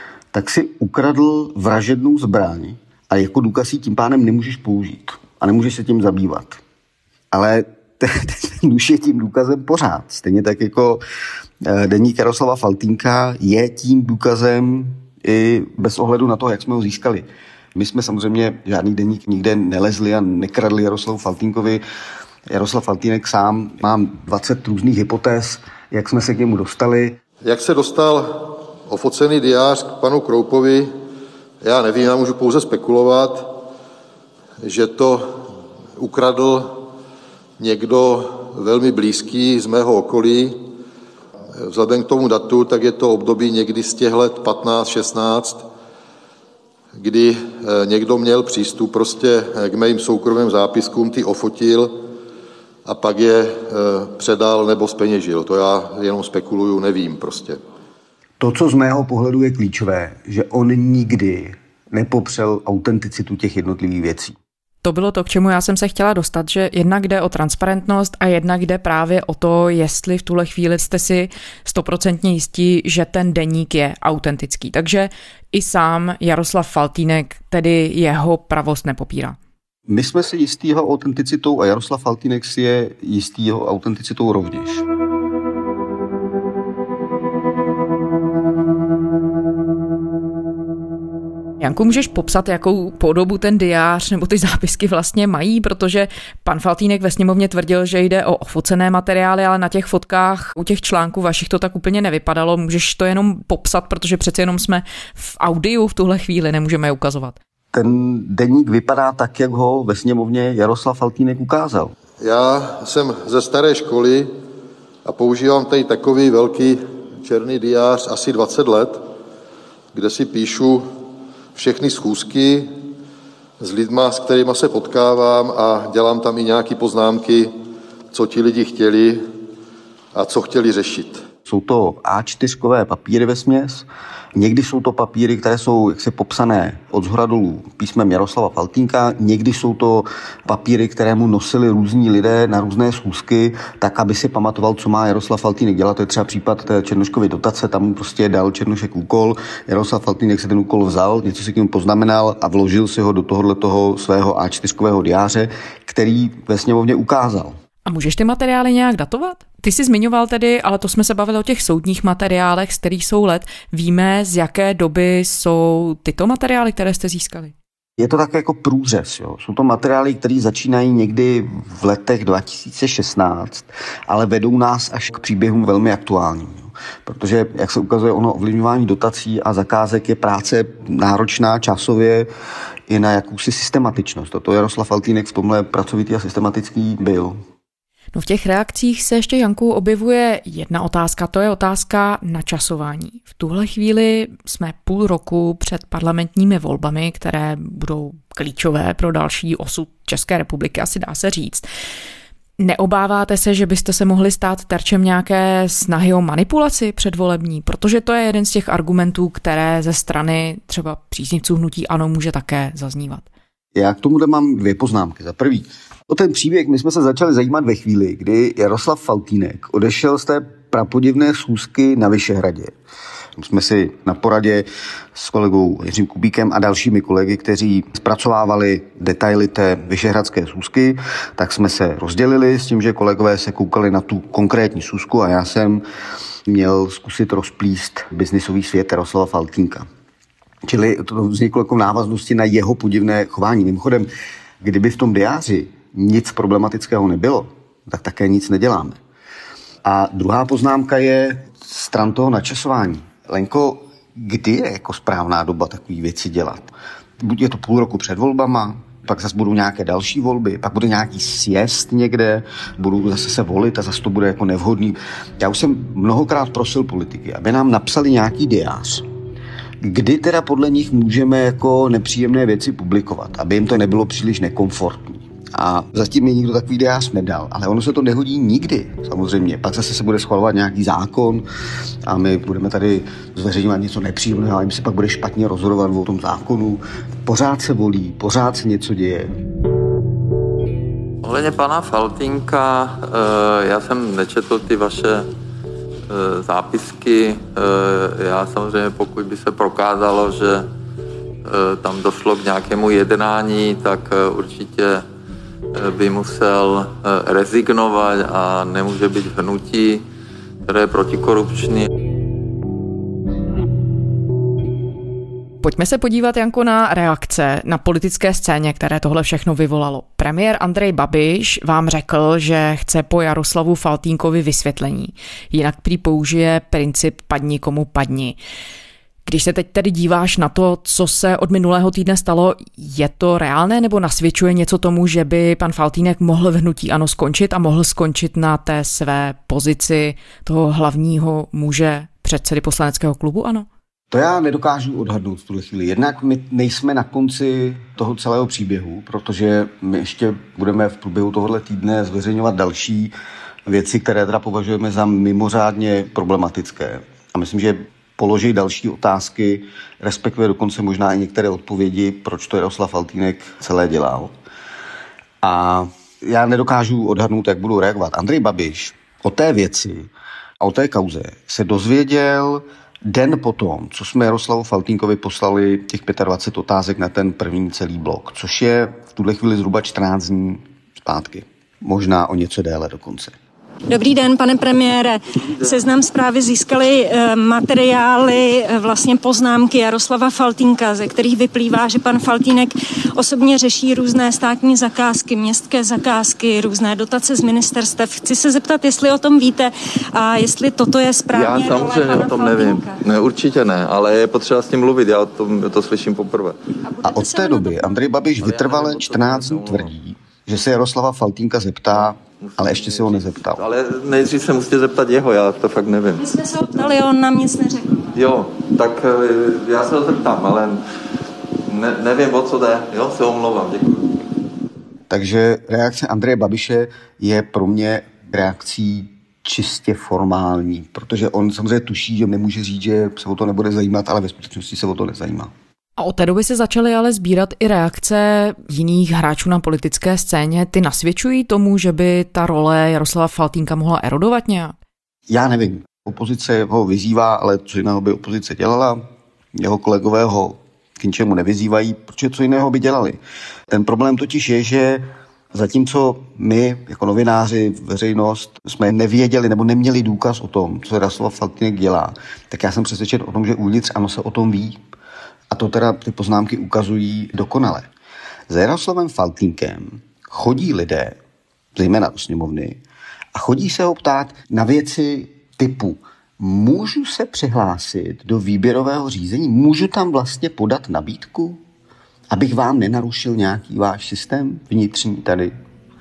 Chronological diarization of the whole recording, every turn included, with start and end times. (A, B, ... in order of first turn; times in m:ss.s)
0:00.3-0:06.6 A
0:07.3-0:11.0 A
0:11.6-0:21.8 A
0:22.5-0:27.2 A
0:27.4-0:30.9 B
0:31.6-0:33.5 B
0:34.6-0:36.8 B
0:37.6-0:40.6 B
0:41.6-0:45.7 B
0:47.0-0:52.0 B
0:52.9-0:57.6 B
0:58.4-1:04.4 A
1:04.8-1:19.4 C
1:19.9-1:24.8 A
1:31.6-1:47.4 C
1:47.7-1:51.9 A
1:52.2-1:54.3 B
1:55.0-1:59.0 B
1:59.9-2:00.9 B
2:01.6-2:02.7 B
2:03.6-2:07.5 B
2:08.1-2:09.2 B
2:10.2-2:11.2 B
2:11.5-2:37.6 A
2:37.9-2:47.5 C
2:48.0-3:02.3 A
3:02.9-3:07.4 A
3:08.1-3:21.7 C
3:22.6-3:33.3 C
3:33.8-3:42.8 A
3:43.4-3:55.8 A
3:56.5-3:59.9 A
4:00.6-4:04.1 A
4:04.6-4:09.0 A
4:09.8-4:29.1 A
4:29.8-4:41.5 A
4:42.1-4:49.3 A
4:51.2-4:55.3 D
4:56.1-5:00.7 D
5:01.4-5:05.0 D
5:05.7-5:10.0 D
5:10.6-5:11.9 D
5:15.6-5:28.4 C
5:29.3-5:43.7 C
5:44.1-5:53.1 A
5:53.7-6:04.3 A
6:05.4-6:23.3 A
6:23.9-6:43.0 E
6:41.3-6:46.6 D
6:46.9-6:48.0 E
6:47.0-6:53.6 A
6:48.4-6:49.9 D
6:52.4-6:56.3 D
6:56.2-6:58.2 E
6:58.2-7:00.8 D
7:01.7-7:04.1 D
7:05.1-7:15.5 A
7:16.0-7:24.7 C
7:25.3-7:44.8 A
7:45.5-7:47.9 A
7:48.5-7:51.2 A
7:51.8-7:52.8 A
7:53.3-8:01.6 A
8:02.3-8:05.5 A